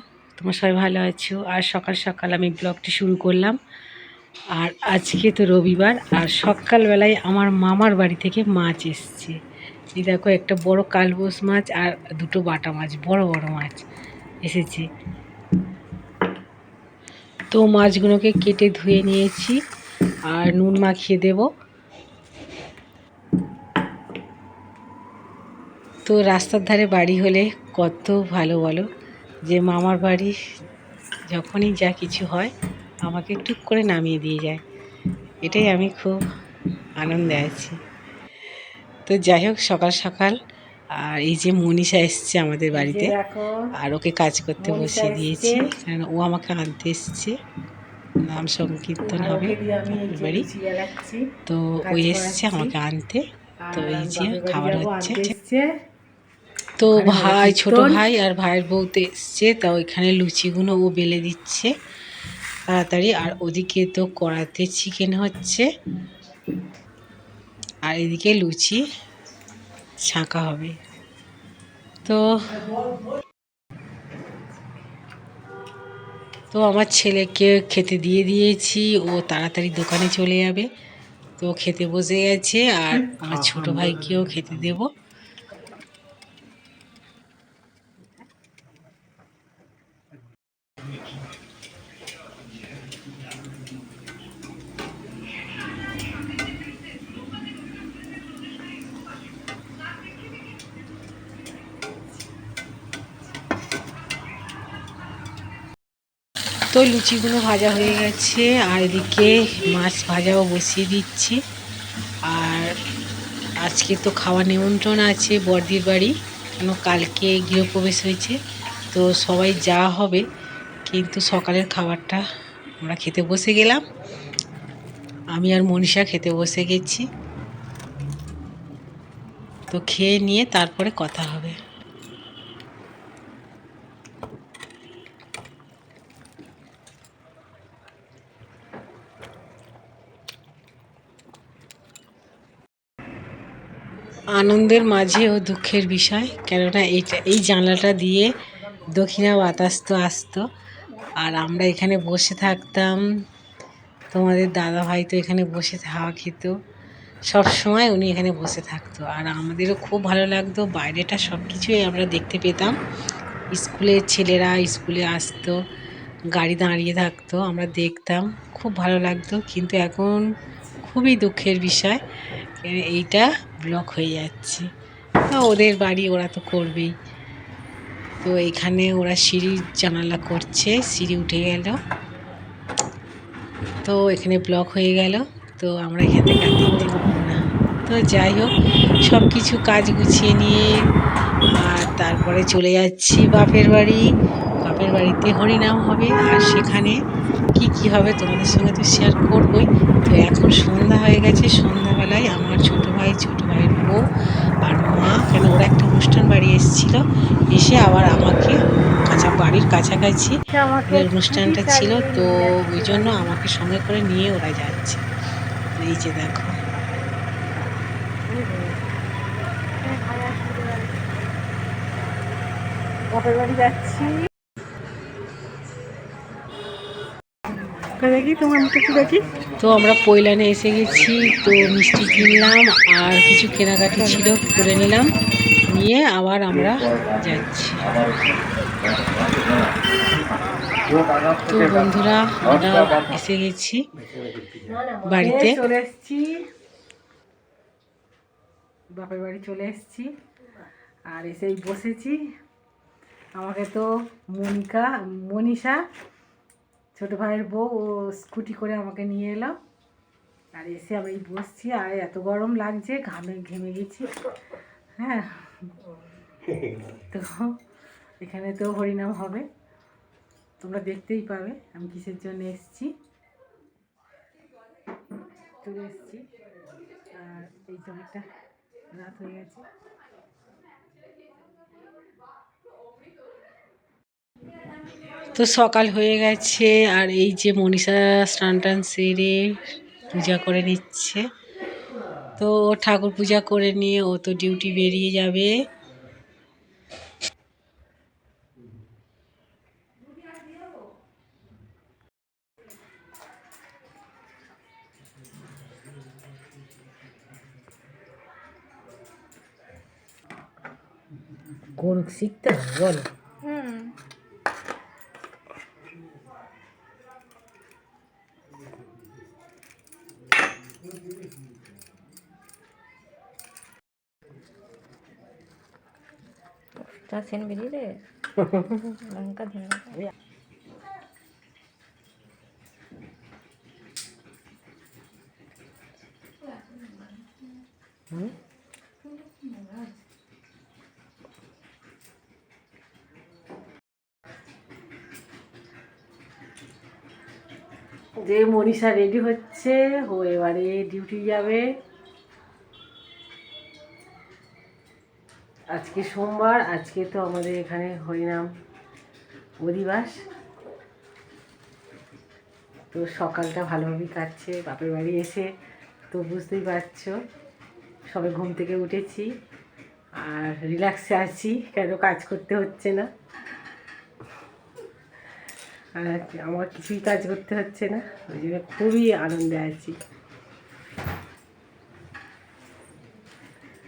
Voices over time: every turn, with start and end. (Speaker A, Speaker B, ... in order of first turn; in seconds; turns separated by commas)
Speaker A: 0.4-3.6, Speaker A: 4.6-9.4, Speaker A: 10.0-13.8, Speaker A: 14.4-14.9, Speaker A: 17.5-19.6, Speaker A: 20.3-21.5, Speaker A: 26.1-28.9, Speaker A: 29.5-30.3, Speaker A: 31.3-32.5, Speaker A: 33.1-34.6, Speaker A: 35.4-36.2, Speaker A: 37.0-37.8, Speaker A: 39.1-40.4, Speaker A: 41.0-43.1, Speaker B: 42.7-43.5, Speaker A: 43.8-47.3, Speaker B: 44.6-45.7, Speaker A: 48.2-50.5, Speaker B: 49.0-51.2, Speaker A: 51.5-55.3, Speaker B: 51.8-52.7, Speaker B: 53.6-55.7, Speaker A: 56.8-61.7, Speaker B: 56.9-58.0, Speaker A: 62.7-65.7, Speaker A: 67.8-68.8, Speaker A: 70.0-70.8, Speaker A: 72.0-72.6, Speaker A: 76.5-80.7, Speaker A: 81.4-84.9, Speaker A: 106.7-111.4, Speaker A: 112.3-112.7, Speaker A: 113.6-118.4, Speaker A: 118.9-120.2, Speaker A: 120.9-122.2, Speaker A: 122.8-123.8, Speaker A: 125.4-127.1, Speaker A: 129.7-131.6, Speaker A: 144.4-148.3, Speaker A: 148.9-150.4, Speaker A: 151.2-153.0, Speaker A: 154.1-156.5, Speaker A: 157.3-162.8, Speaker A: 163.5-165.6, Speaker A: 166.3-170.3, Speaker A: 170.8-172.0, Speaker A: 172.6-174.7, Speaker A: 175.3-176.9, Speaker A: 178.2-181.8, Speaker A: 183.8-188.5, Speaker B: 186.8-187.3, Speaker A: 189.0-190.7, Speaker A: 191.5-194.0, Speaker A: 194.6-197.0, Speaker A: 197.6-204.0, Speaker A: 204.6-210.4, Speaker B: 210.5-213.3, Speaker A: 210.9-215.0, Speaker A: 215.8-216.5, Speaker B: 218.3-218.8, Speaker B: 219.8-221.0, Speaker B: 223.1-224.2, Speaker B: 228.0-229.3, Speaker A: 229.6-235.1, Speaker A: 235.7-238.0, Speaker A: 241.4-243.8, Speaker B: 244.5-246.4, Speaker A: 245.1-245.6, Speaker B: 248.9-250.1, Speaker B: 251.1-252.2, Speaker B: 253.4-255.8, Speaker B: 257.0-259.5, Speaker B: 260.6-264.1, Speaker B: 265.0-265.3, Speaker B: 267.0-267.4, Speaker B: 268.2-269.4, Speaker B: 270.6-272.9, Speaker B: 275.6-276.2, Speaker B: 277.2-278.2, Speaker B: 279.0-279.6, Speaker A: 285.4-289.6, Speaker A: 290.1-291.2, Speaker A: 292.4-295.5, Speaker B: 311.8-313.1, Speaker C: 313.4-313.9, Speaker C: 326.8-328.0, Speaker C: 328.5-330.0, Speaker C: 336.4-337.5, Speaker C: 339.0-340.0, Speaker B: 348.2-351.6, Speaker B: 355.7-358.4, Speaker B: 359.6-360.1, Speaker B: 362.9-365.5, Speaker B: 366.1-367.1, Speaker B: 368.1-369.2, Speaker B: 370.2-373.1, Speaker B: 376.0-380.0